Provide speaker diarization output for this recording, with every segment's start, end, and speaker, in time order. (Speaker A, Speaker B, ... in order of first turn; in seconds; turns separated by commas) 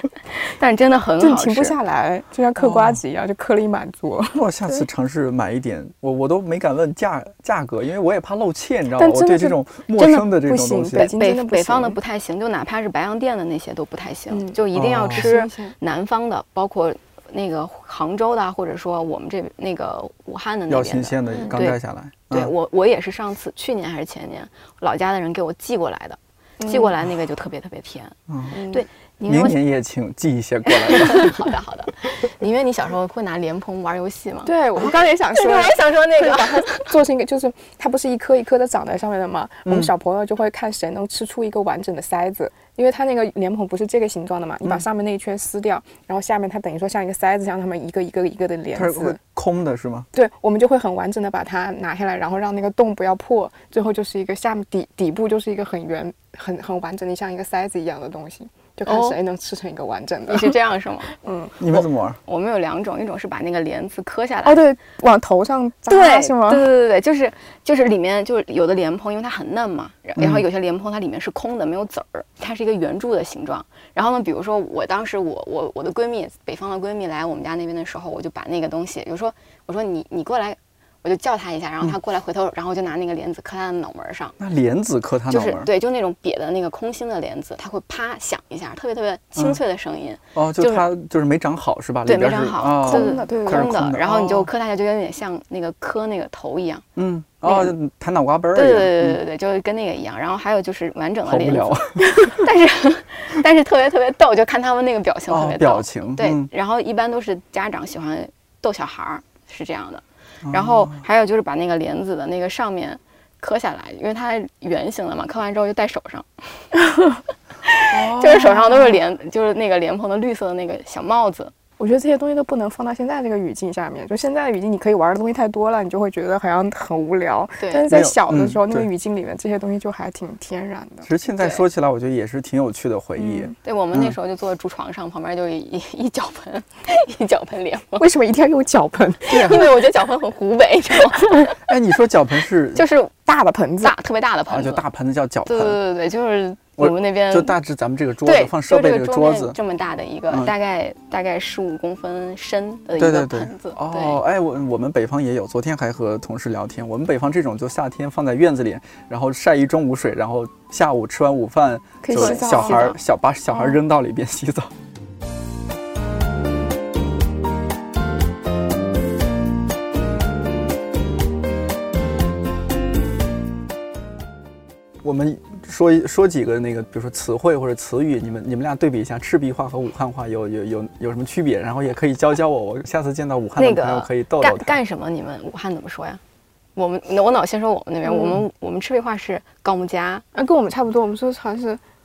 Speaker A: 0.4-1.8, Speaker B: 1.2-4.8, Speaker C: 2.6-3.0, Speaker C: 4.3-11.1, Speaker B: 9.0-9.6, Speaker A: 10.0-10.3, Speaker B: 10.3-12.0, Speaker A: 10.9-28.2, Speaker B: 14.3-14.6, Speaker C: 14.7-15.3, Speaker B: 15.1-15.8, Speaker C: 20.7-22.5, Speaker B: 21.3-21.6, Speaker B: 26.6-26.9, Speaker C: 28.3-28.6, Speaker B: 28.5-28.9, Speaker A: 28.7-29.6, Speaker C: 29.2-31.4, Speaker A: 30.7-37.0, Speaker B: 34.5-49.2, Speaker C: 39.7-39.9, Speaker C: 48.7-50.1, Speaker B: 50.1-60.5, Speaker A: 58.9-59.2, Speaker A: 60.3-61.1, Speaker B: 61.2-61.5, Speaker C: 61.6-62.2, Speaker A: 61.7-64.6, Speaker B: 64.5-66.7, Speaker A: 65.9-84.4, Speaker C: 70.2-70.4, Speaker C: 84.4-85.7, Speaker A: 85.3-90.9, Speaker C: 90.3-94.5, Speaker A: 92.1-96.8, Speaker B: 92.8-93.7, Speaker C: 97.0-99.2, Speaker A: 97.4-97.8, Speaker A: 98.5-116.3, Speaker C: 101.2-102.4, Speaker C: 105.3-106.5, Speaker C: 110.5-111.0, Speaker A: 117.7-121.5, Speaker C: 117.9-118.8, Speaker B: 121.8-131.1, Speaker A: 127.6-127.9, Speaker C: 127.9-128.9, Speaker C: 131.1-134.2, Speaker A: 131.4-131.6, Speaker B: 133.2-133.5, Speaker A: 133.6-138.1, Speaker B: 138.0-139.7, Speaker A: 139.3-141.6, Speaker C: 139.3-139.6, Speaker C: 141.6-142.8, Speaker A: 142.8-143.1, Speaker B: 143.2-144.0, Speaker A: 143.8-144.8, Speaker C: 144.5-145.8, Speaker A: 145.5-147.6, Speaker C: 146.8-149.6, Speaker A: 148.2-154.2, Speaker C: 153.0-164.7, Speaker B: 162.0-162.9, Speaker A: 162.1-163.0, Speaker C: 175.0-184.8, Speaker A: 183.6-186.2, Speaker A: 186.8-190.2, Speaker B: 188.1-188.4, Speaker B: 190.3-191.8